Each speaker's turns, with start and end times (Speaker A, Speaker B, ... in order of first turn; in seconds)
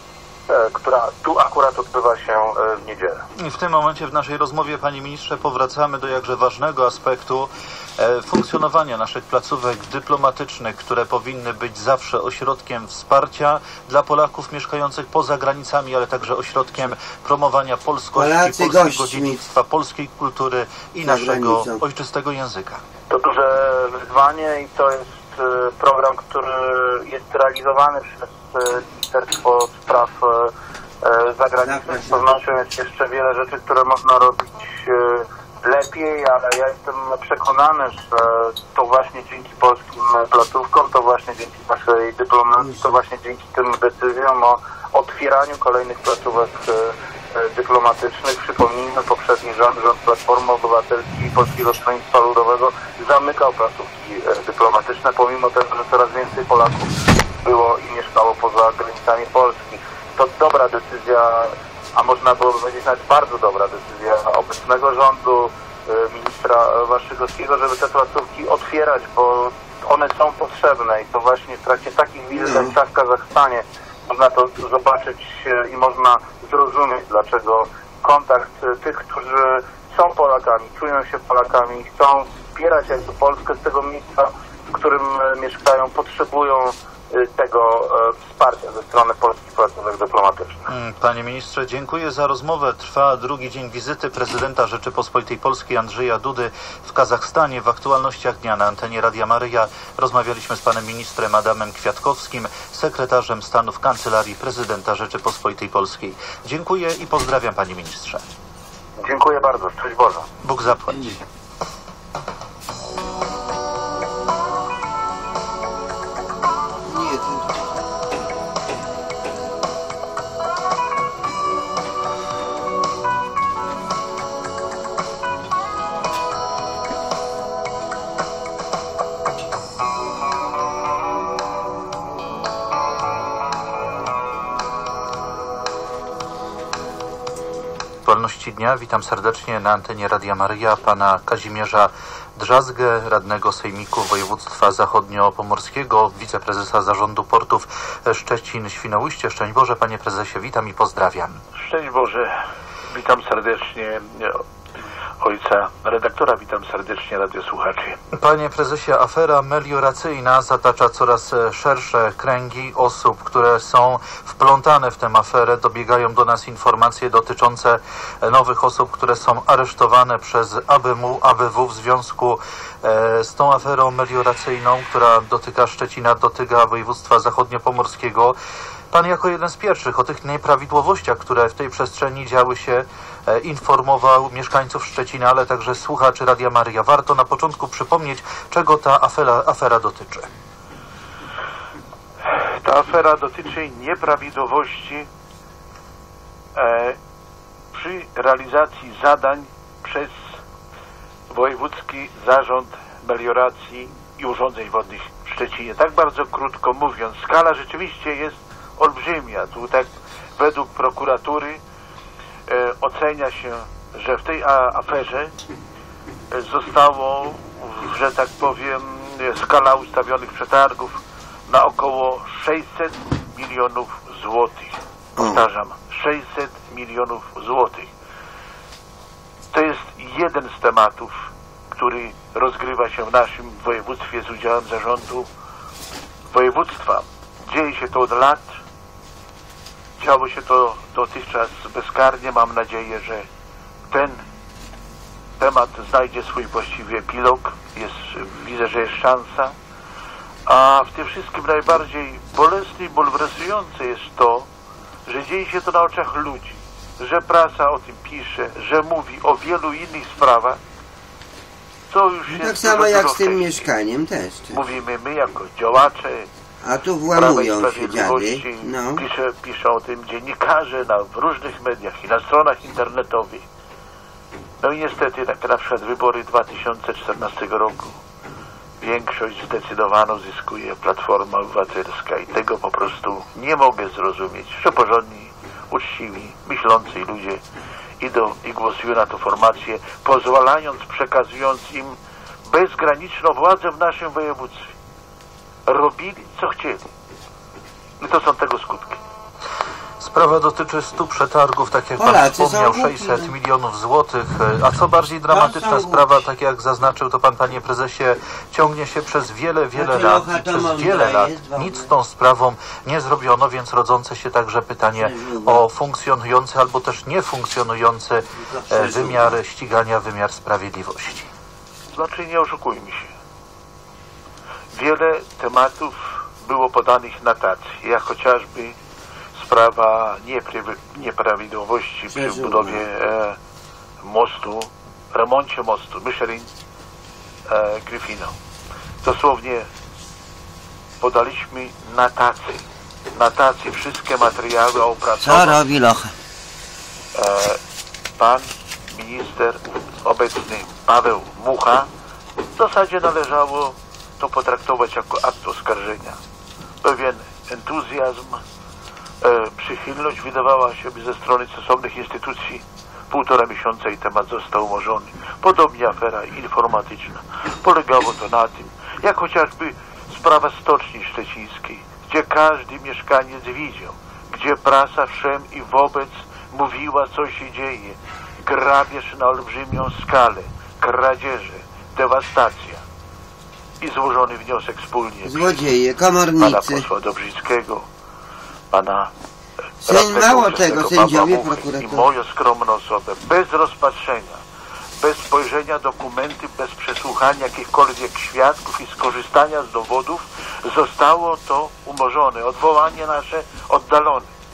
Speaker A: 0.5-3.2, 23.1-90.7, 109.0-110.2
Speaker B: 3.4-22.8, 90.7-108.2, 110.4-111.2, 138.0-151.4, 158.1-178.3, 178.9-190.3, 300.0-321.3
Speaker C: 18.1-19.5, 21.0-21.8, 31.6-32.2, 72.4-72.7, 116.8-117.8, 225.2-225.4, 262.3-264.6, 266.6-269.0, 302.0-303.3, 305.3-306.0, 309.8-311.9, 315.0-315.7, 318.4-319.4, 332.1-332.8, 345.2-346.1, 385.2-386.8, 389.8-392.1
Speaker D: 151.6-152.3, 152.9-154.4, 155.2-158.0, 192.6-195.1, 196.6-197.0, 197.7-200.1, 201.3-211.6, 212.5-215.3, 216.3-227.9, 229.5-231.1, 231.8-235.3, 236.3-238.5, 240.0-243.3, 243.9-244.2, 245.4-249.5, 250.5-254.5, 255.1-260.6, 261.9-263.6, 264.5-266.3, 267.1-273.4, 274.6-278.0, 278.8-287.4, 288.0-291.9, 292.5-294.7, 295.7-296.9, 298.0-299.0, 321.9-323.1, 324.7-328.7, 329.3-333.4, 334.0-336.5, 337.5-338.3, 339.0-339.6, 341.0-342.6, 343.1-345.6, 347.1-347.6, 348.2-351.9, 352.6-356.2, 356.8-358.4, 359.2-382.8, 383.8-385.5, 386.4-387.8, 388.7-389.1, 389.8-394.4, 395.0-404.3